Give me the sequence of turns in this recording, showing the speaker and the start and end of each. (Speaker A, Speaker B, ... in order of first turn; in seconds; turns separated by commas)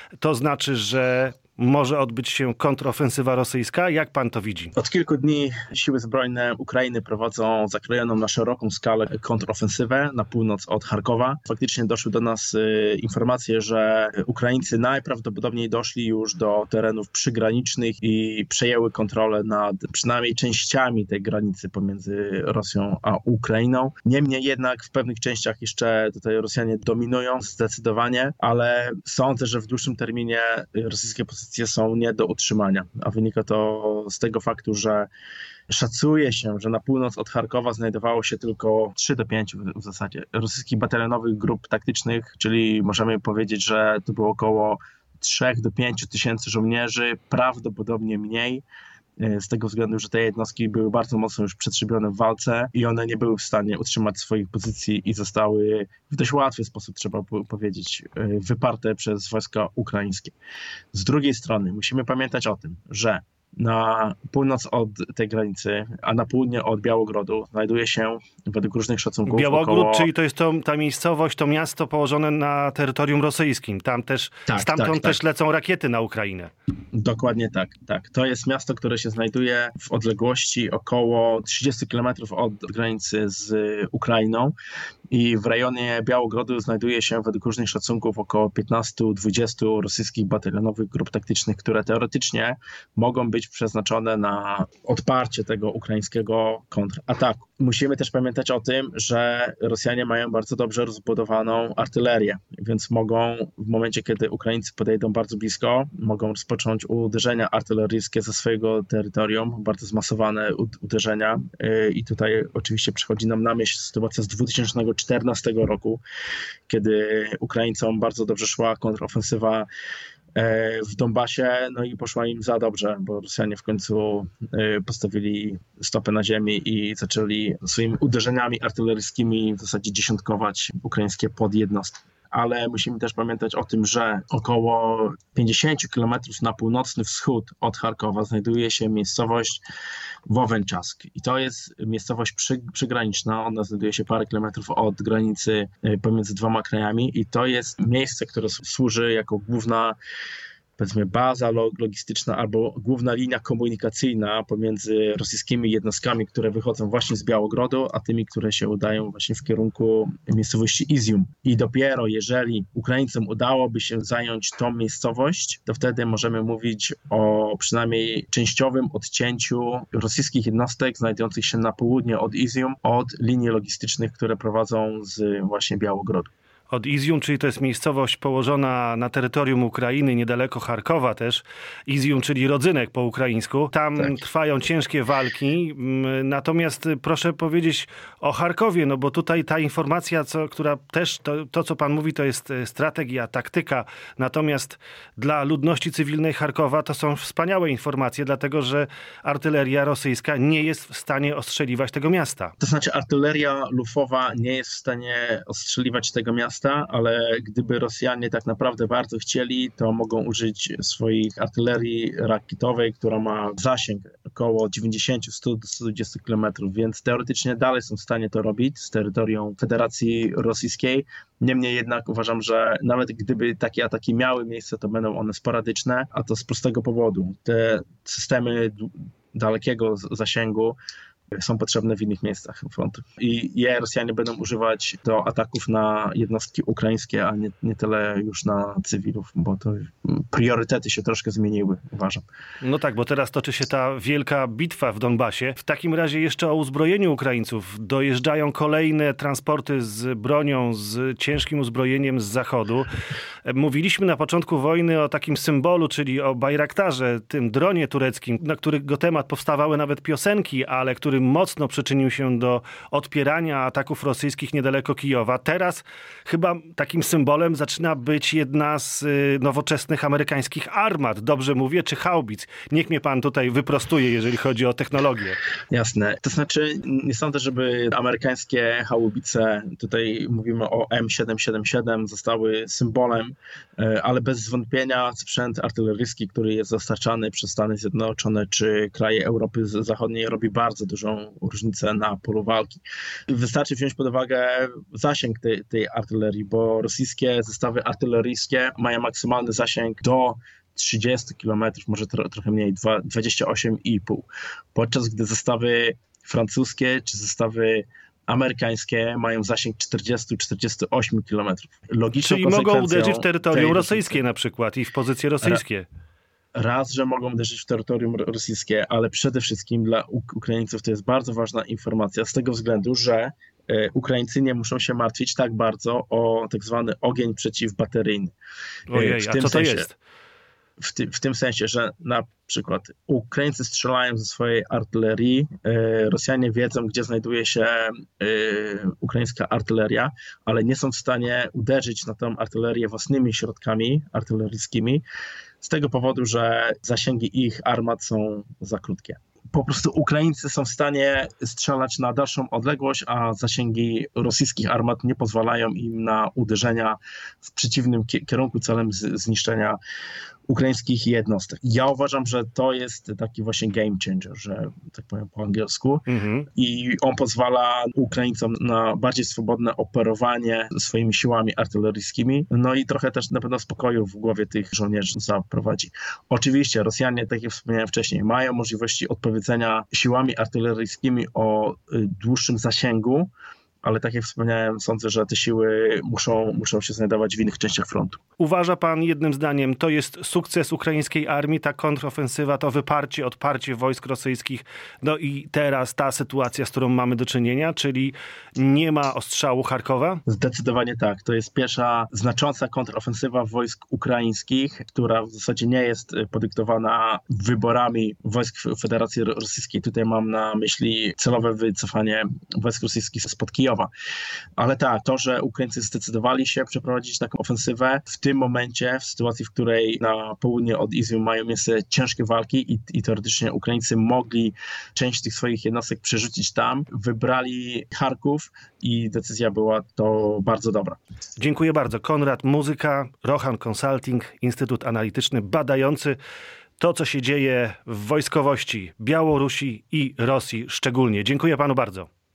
Speaker A: 0.2-4.7, Speaker B: 4.7-35.1, Speaker B: 35.7-48.6, Speaker B: 49.2-60.3, Speaker B: 60.9-70.1, Speaker A: 69.3-76.5, Speaker B: 74.5-75.2, Speaker B: 76.9-84.5, Speaker B: 85.1-116.0, Speaker B: 116.7-119.7, Speaker B: 120.3-139.6, Speaker B: 140.3-149.9, Speaker B: 150.8-176.3, Speaker A: 176.7-202.5, Speaker B: 202.6-230.8, Speaker B: 231.3-242.2, Speaker A: 242.6-252.9, Speaker A: 253.4-275.4, Speaker B: 275.7-314.2, Speaker A: 312.2-315.9, Speaker B: 316.5-328.3, Speaker A: 328.9-330.0, Speaker B: 328.9-329.9, Speaker B: 330.8-345.0, Speaker B: 345.6-359.8, Speaker B: 360.5-383.3, Speaker A: 366.1-366.5, Speaker B: 383.8-388.2, Speaker A: 388.4-400.2, Speaker B: 400.2-413.9, Speaker B: 414.6-431.0, Speaker A: 431.4-436.1, Speaker A: 436.8-442.1